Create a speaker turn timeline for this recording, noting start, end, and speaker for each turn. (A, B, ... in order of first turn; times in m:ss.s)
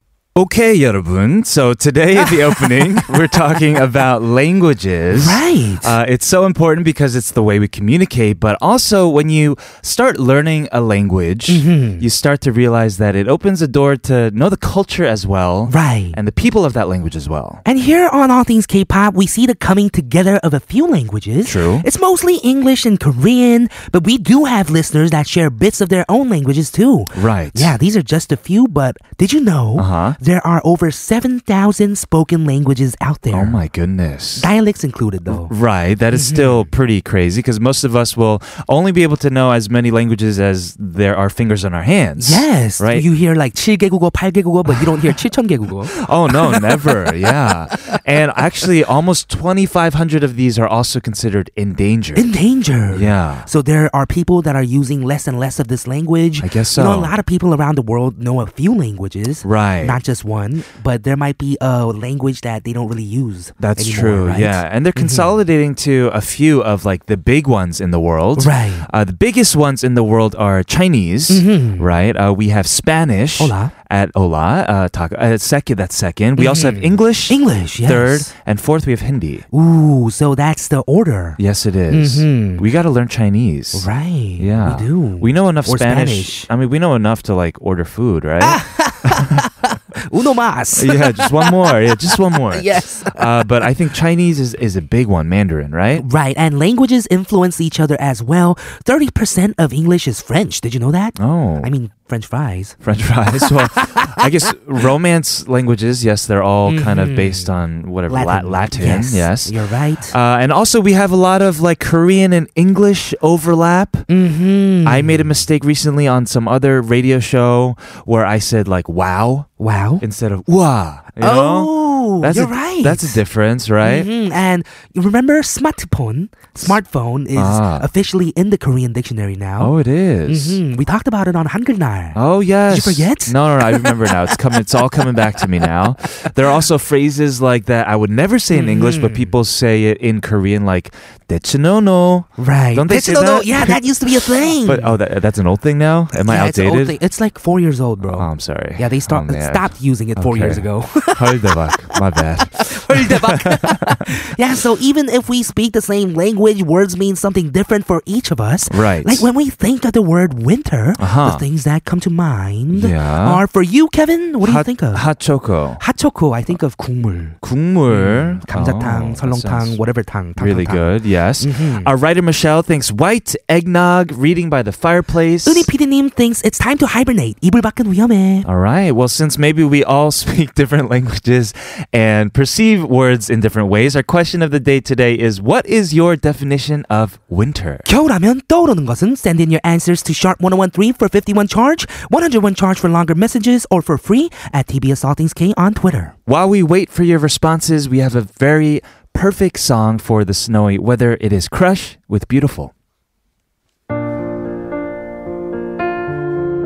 0:00.4-0:17.6 A
0:02.2-0:03.1 B
0:05.1-0:05.9 B
0:11.5-0:12.0 B
0:15.7-0:16.2 B
0:17.6-0:33.6 B
0:21.4-0:21.8 A
0:27.1-0:27.7 A
0:29.8-0:30.2 A
0:33.3-0:34.5 A
0:34.4-0:35.5 B
0:35.3-0:43.0 A
0:36.1-0:36.7 B
0:42.2-0:47.9 B
0:45.9-0:52.3 A
0:52.1-1:05.3 B
0:52.9-0:53.5 A
0:56.4-0:57.1 A
0:59.4-1:00.0 A
1:03.6-1:19.4 A
1:08.4-1:08.9 B
1:11.3-1:11.8 B
1:13.4-1:13.7 B
1:16.4-1:18.3 B
1:19.5-1:21.4 B
1:21.4-1:23.9 A
1:21.9-1:22.6 B
1:23.7-1:26.5 B
1:24.4-1:29.4 A
1:28.4-1:33.7 B
1:30.7-1:36.0 A
1:36.0-1:42.8 B
1:41.2-1:41.7 A
1:42.8-1:49.6 A
1:43.4-1:44.4 B
1:46.6-1:47.5 B
1:48.1-1:50.1 B
1:50.1-1:54.1 A
1:54.1-1:55.3 B
1:54.8-1:59.5 A
1:59.6-2:00.0 B
2:00.0-2:04.1 A
2:01.2-2:03.2 B
2:03.8-2:09.7 B
2:07.3-2:07.9 A
2:09.6-2:10.6 A
2:10.3-2:15.7 B
2:12.2-2:23.8 A
2:18.5-2:19.3 B
2:22.4-2:25.0 B
2:24.4-2:27.0 A
2:26.1-2:45.1 B
2:28.1-2:34.2 A
2:38.7-2:39.3 A
2:41.0-2:41.4 A
2:42.7-2:43.4 A
2:44.4-2:45.8 A
2:45.8-2:47.4 B
2:47.4-2:49.8 A
2:47.9-2:50.8 B
2:50.4-2:55.7 A
2:51.4-2:51.9 B
2:55.4-2:58.5 B
2:58.4-3:07.9 A
3:07.8-3:16.1 B
3:16.3-3:22.7 A